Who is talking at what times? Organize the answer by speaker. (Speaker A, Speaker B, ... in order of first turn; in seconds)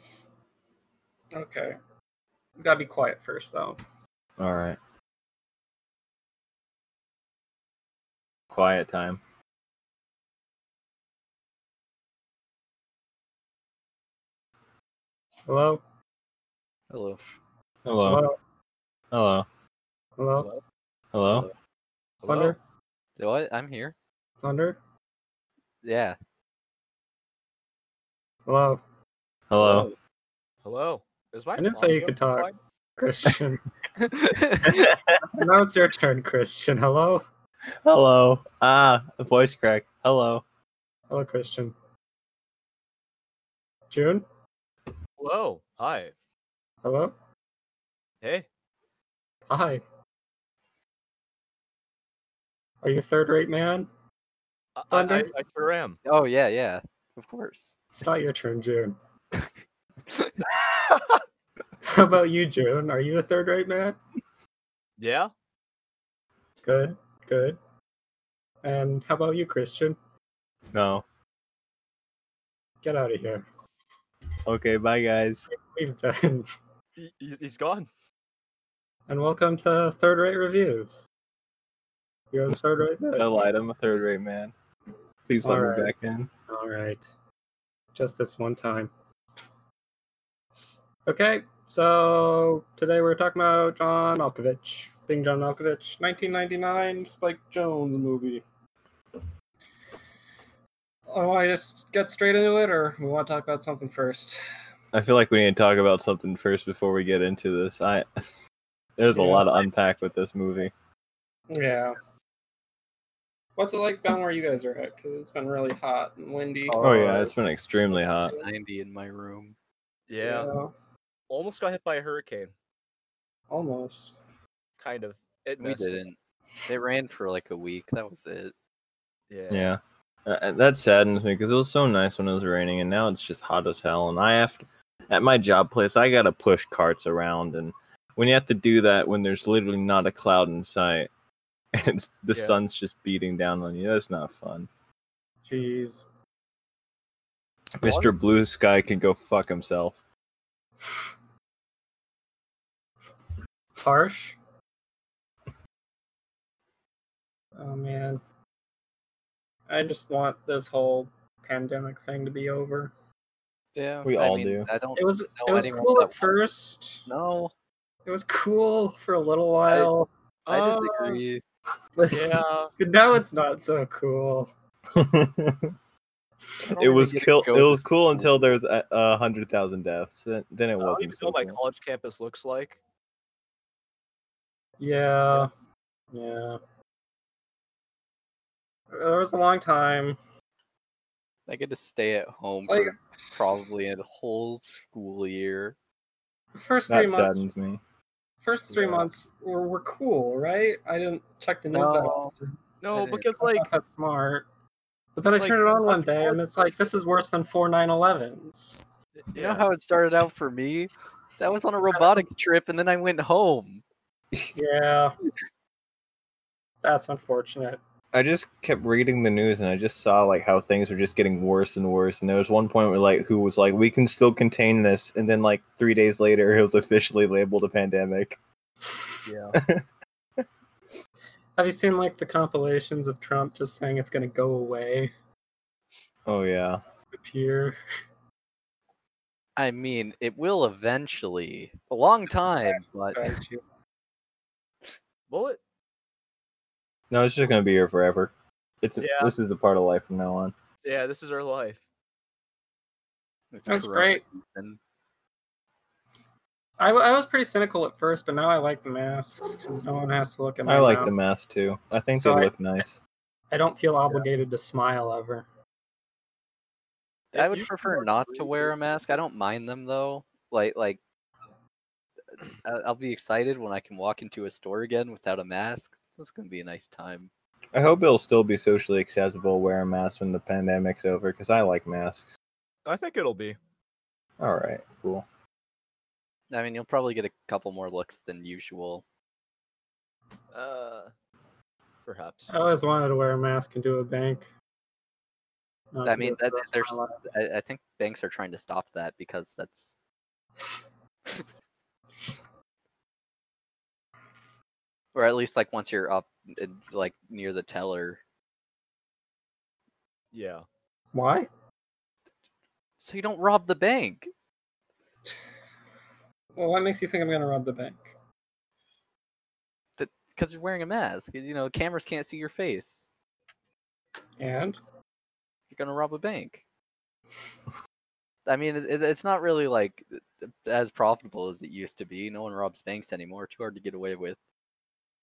Speaker A: 1.3-1.8, 2.6-3.8, 15.5-15.8, 18.0-18.4, 20.2-20.5, 22.2-22.6, 24.4-24.8, 28.5-28.8, 31.6-33.6, 35.3-37.2, 41.1-41.7, 43.9-44.2, 46.8-47.1, 49.5-49.8, 52.8-53.9, 54.9-55.3, 58.0-59.0, 61.8-64.0, 66.6-67.6, 68.6-70.0, 72.8-73.5, 75.5-76.5, 79.1-81.1, 82.3-83.3, 85.4-86.0, 86.5-87.1, 87.9-88.9, 91.1-98.4, 101.1-104.4, 109.1-109.5, 111.5-112.0, 113.6-117.3, 120.2-120.7, 123.5-124.2, 145.4-146.1, 153.8-154.4, 157.6-158.2, 159.7-162.9, 165.0-167.1, 168.1-170.1, 172.8-174.5, 184.8-185.5, 186.1-186.6, 188.9-190.2, 192.7-193.0, 196.6-197.4, 198.4-204.5, 205.2-208.8, 214.5-215.2, 216.8-217.8, 231.6-235.1, 237.1-237.8, 242.7-243.6, 253.7-254.2, 256.8-261.1, 261.9-262.5, 263.5-265.5, 292.5-294.5, 295.9-297.2, 311.1-311.5, 316.6-318.1, 324.4-324.8
Speaker B: 4.4-4.8, 8.5-9.2, 17.9-18.3, 19.1-19.5, 21.1-21.5, 29.5-29.9, 34.7-35.2, 37.8-40.4, 70.7-71.0, 74.5-75.5, 83.2-84.5, 85.3-86.3, 104.9-108.1, 109.0-110.7, 116.8-118.4, 129.5-141.1, 141.7-144.7, 147.8-150.0, 164.0-164.7, 174.9-175.7, 176.7-181.6, 196.9-197.8, 218.1-228.4, 229.6-229.8, 236.3-236.8, 247.1-250.5, 260.7-263.0, 277.7-282.3, 284.4-285.3
Speaker C: 16.9-17.2, 23.2-23.9, 25.8-26.2, 29.6-30.0, 34.0-34.9, 56.0-57.8, 116.7-117.3, 118.4-119.5, 125.6-128.5, 163.8-166.3, 167.1-167.5, 170.5-171.4, 176.7-178.6, 191.5-195.8, 201.7-202.3, 202.9-203.3, 209.3-213.8, 239.6-243.3, 253.5-254.8, 267.3-271.0, 272.4-277.3, 286.5-289.0, 296.1-299.9, 305.1-308.2, 313.0-314.3, 320.0-323.1, 325.7-326.6, 328.5-334.4
Speaker D: 22.2-22.6, 30.6-32.6, 45.2-46.1, 54.8-56.0, 60.5-61.2, 65.0-65.3, 77.0-77.9, 120.1-120.5, 121.3-122.5, 124.8-126.0, 129.3-129.7, 147.8-148.1, 170.5-171.2, 172.1-172.7, 180.8-182.8, 202.8-203.7, 205.4-206.8, 209.3-209.7, 229.3-229.6, 245.3-245.6, 249.0-249.3, 250.8-251.8, 267.3-268.7, 282.9-283.6, 290.5-291.1, 292.1-292.5, 310.3-310.6